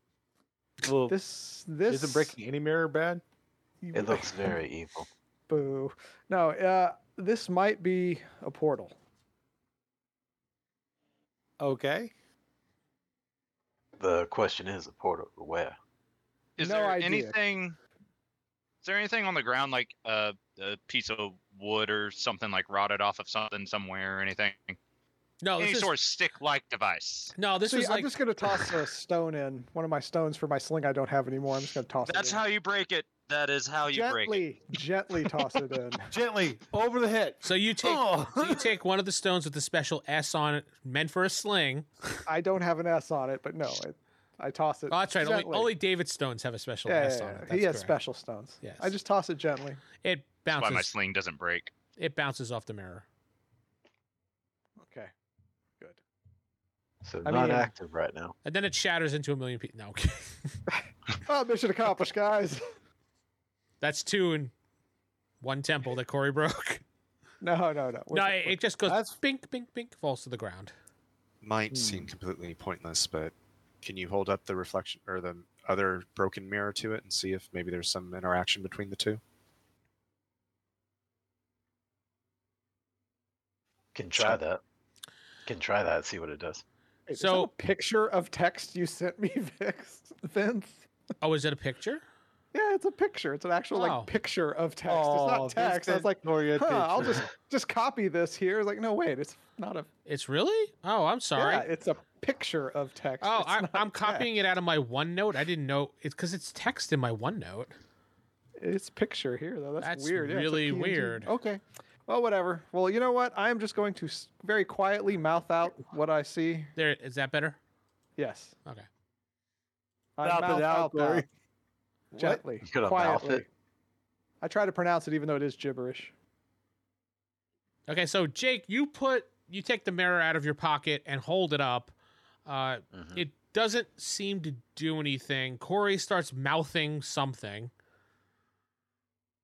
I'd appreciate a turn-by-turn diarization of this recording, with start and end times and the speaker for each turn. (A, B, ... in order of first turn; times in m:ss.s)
0:00.8-0:01.1 A
0:01.1-0:02.3 B
0:01.9-0:03.2 A
0:03.8-0:04.3 B
0:03.9-0:05.1 C
0:05.5-0:08.9 B
0:11.6-0:12.1 A
0:14.0-0:15.8 C
0:16.6-0:17.8 D
0:16.6-0:17.4 B
0:18.8-0:24.8 D
0:25.4-0:25.9 E
0:25.6-0:27.3 D
0:27.4-0:28.6 E
0:27.6-0:32.4 B
0:32.0-0:34.4 D
0:33.9-0:36.1 B
0:36.1-0:38.7 A
0:37.4-0:41.9 E
0:42.2-0:45.7 B
0:44.9-0:47.9 E
0:46.8-0:49.8 B
0:48.6-0:48.9 E
0:50.0-0:50.9 E
0:50.5-0:51.7 D
0:52.0-0:53.0 E
0:54.8-0:55.1 B
0:57.0-0:58.4 C
0:57.2-0:57.7 B
0:58.4-1:00.5 E
1:00.7-1:02.6 B
1:03.8-1:04.5 E
1:05.4-1:06.8 E
1:07.4-1:08.6 B
1:08.1-1:10.7 E
1:08.9-1:09.1 A
1:11.4-1:19.2 F
1:11.7-1:12.1 B
1:23.9-1:24.6 C
1:25.4-1:26.6 C
1:27.1-1:30.9 B
1:27.2-1:27.5 E
1:31.2-1:32.0 E
1:32.5-1:39.9 B
1:33.7-1:34.1 E
1:34.9-1:37.3 A
1:40.0-1:41.7 E
1:41.4-1:44.3 B
1:43.2-1:47.7 E
1:48.6-1:56.7 B
1:49.8-1:51.3 E
1:56.8-1:57.6 E
1:58.2-1:58.5 B
2:00.2-2:01.2 B
2:00.2-2:01.3 A
2:02.1-2:02.4 A
2:02.2-2:03.4 B
2:02.6-2:03.4 C
2:04.4-2:06.1 B
2:07.9-2:11.9 E
2:12.4-2:17.7 E
2:12.9-2:13.2 C